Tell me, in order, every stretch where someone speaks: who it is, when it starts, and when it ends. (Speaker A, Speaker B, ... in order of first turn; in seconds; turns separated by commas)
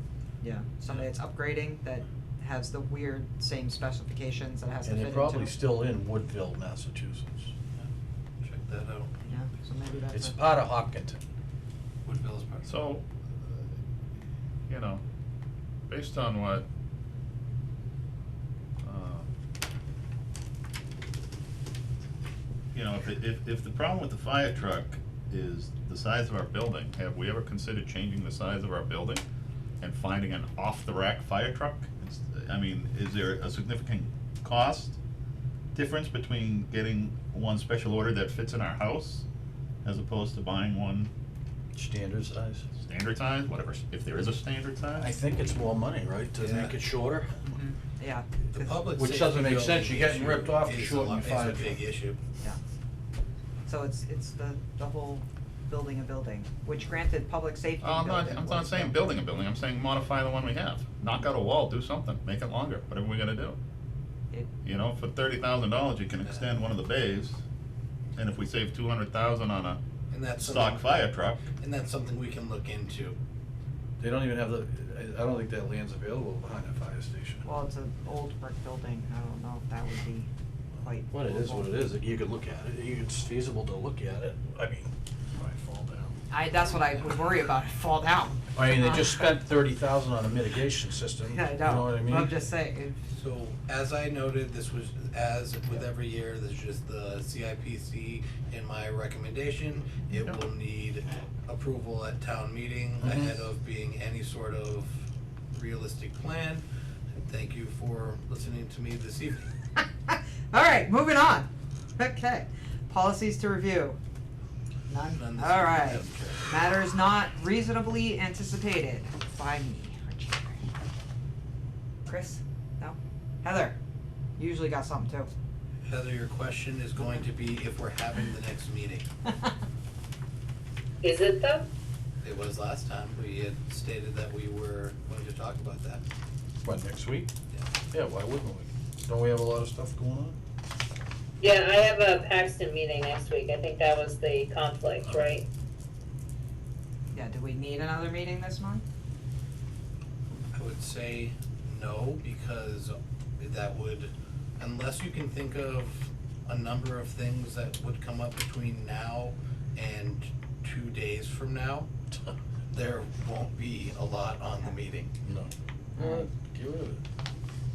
Speaker A: 0.4-5.5, Speaker B: 4.8-7.5, Speaker C: 8.4-9.3, Speaker A: 9.3-10.3, Speaker B: 10.1-11.2, Speaker C: 12.0-12.7, Speaker D: 12.7-13.7, Speaker D: 14.7-15.0, Speaker D: 15.9-16.6, Speaker D: 18.8-19.3, Speaker D: 22.7-29.2, Speaker D: 29.8-35.0, Speaker D: 35.7-39.2, Speaker D: 39.8-41.1, Speaker B: 41.7-42.6, Speaker D: 42.7-45.1, Speaker B: 45.0-47.4, Speaker C: 46.4-46.8, Speaker A: 47.5-48.9, Speaker C: 48.5-52.2, Speaker B: 49.0-51.8, Speaker A: 53.6-59.0, Speaker D: 57.8-63.6, Speaker D: 64.6-67.4, Speaker C: 66.2-66.6, Speaker D: 68.2-69.8, Speaker C: 70.1-73.2, Speaker D: 70.4-71.5, Speaker B: 74.0-77.4, Speaker A: 77.4-81.8, Speaker B: 81.1-86.1, Speaker A: 86.3-89.1, Speaker B: 88.5-92.3, Speaker A: 91.3-93.0, Speaker C: 93.1-106.6, Speaker C: 107.1-109.5, Speaker A: 109.8-114.0, Speaker A: 114.9-120.7, Speaker C: 115.1-116.5, Speaker A: 122.0-123.8, Speaker A: 124.4-125.3, Speaker C: 125.8-129.1, Speaker E: 131.0-131.7, Speaker C: 132.2-136.0, Speaker B: 136.6-137.3, Speaker B: 137.9-140.4, Speaker E: 141.4-145.4, Speaker A: 147.1-148.8, Speaker C: 150.5-161.9, Speaker C: 162.7-165.1, Speaker B: 165.2-167.0, Speaker A: 166.0-166.2